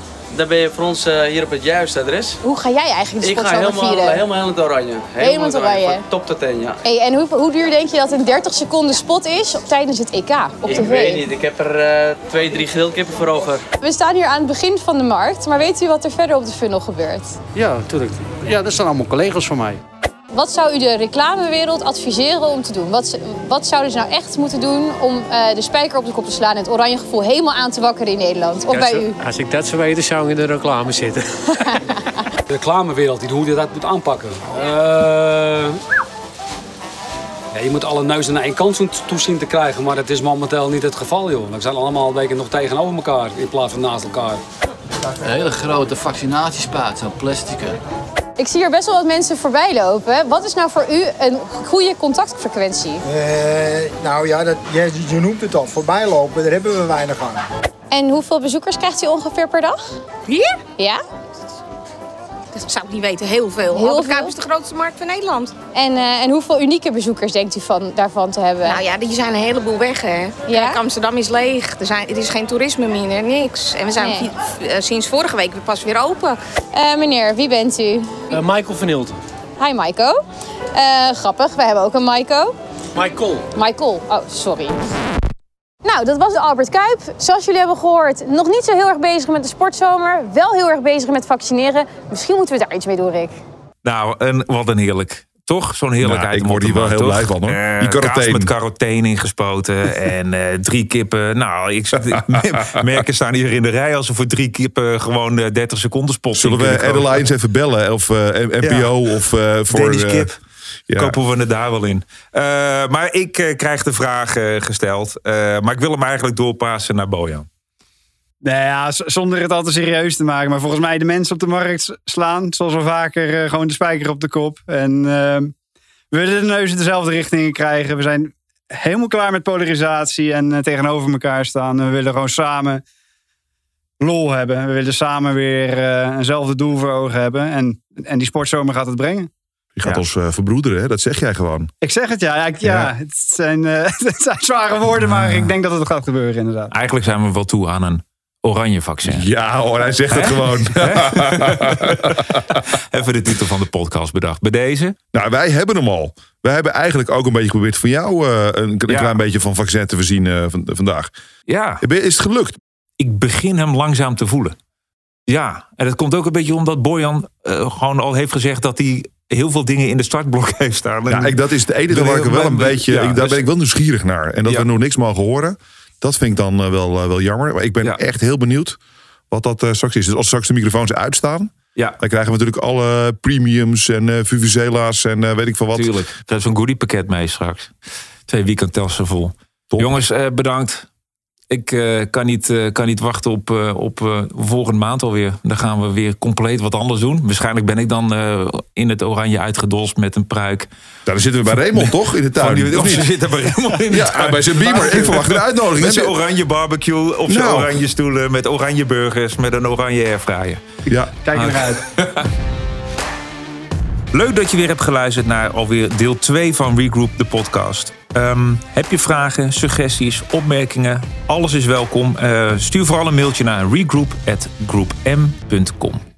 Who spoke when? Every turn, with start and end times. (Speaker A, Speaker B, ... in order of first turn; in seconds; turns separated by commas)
Speaker A: 0.3-2.4, Speaker B: 2.4-4.2, Speaker A: 3.2-6.8, Speaker B: 5.2-6.0, Speaker B: 6.8-11.2, Speaker A: 10.6-13.6, Speaker B: 13.8-17.4, Speaker C: 17.5-19.8, Speaker B: 20.3-29.2, Speaker D: 28.8-31.0, Speaker E: 29.2-31.2, Speaker D: 32.5-35.8, Speaker D: 37.5-44.4, Speaker F: 45.2-47.8, Speaker B: 48.4-53.0, Speaker G: 53.0-57.4, Speaker B: 57.9-59.9, Speaker H: 60.3-60.6, Speaker B: 60.8-61.0, Speaker H: 62.5-65.5, Speaker B: 63.7-64.3, Speaker B: 65.7-68.8, Speaker H: 68.6-76.4, Speaker B: 70.5-70.8, Speaker B: 74.0-74.2, Speaker B: 76.7-78.4, Speaker E: 78.4-79.1, Speaker B: 79.6-80.2, Speaker B: 80.7-82.5, Speaker E: 83.0-83.4, Speaker B: 83.5-84.7, Speaker B: 85.8-93.3, Speaker I: 93.8-107.2, Speaker J: 96.0-98.5, Speaker J: 106.3-110.3, Speaker I: 108.6-108.9, Speaker I: 109.7-110.4, Speaker J: 110.9-111.2, Speaker I: 110.9-117.5, Speaker K: 118.4-125.5, Speaker K: 126.1-132.8, Speaker K: 134.0-139.3, Speaker J: 139.8-141.7, Speaker K: 141.8-146.7, Speaker J: 142.6-142.9, Speaker I: 145.0-145.5, Speaker I: 146.7-149.3, Speaker J: 149.0-152.6, Speaker I: 150.1-154.9, Speaker J: 155.1-161.1, Speaker I: 158.9-159.2, Speaker I: 161.5-161.8, Speaker J: 161.8-162.6, Speaker I: 163.0-164.6, Speaker I: 165.3-173.4, Speaker J: 171.1-178.8, Speaker J: 179.3-185.9, Speaker I: 185.7-187.7, Speaker I: 188.3-190.8, Speaker I: 191.5-200.7, Speaker J: 201.1-203.1, Speaker I: 201.5-210.6, Speaker J: 203.9-206.2, Speaker J: 207.3-207.8, Speaker J: 210.9-211.1, Speaker K: 211.2-211.8, Speaker I: 211.3-212.3, Speaker I: 214.1-226.0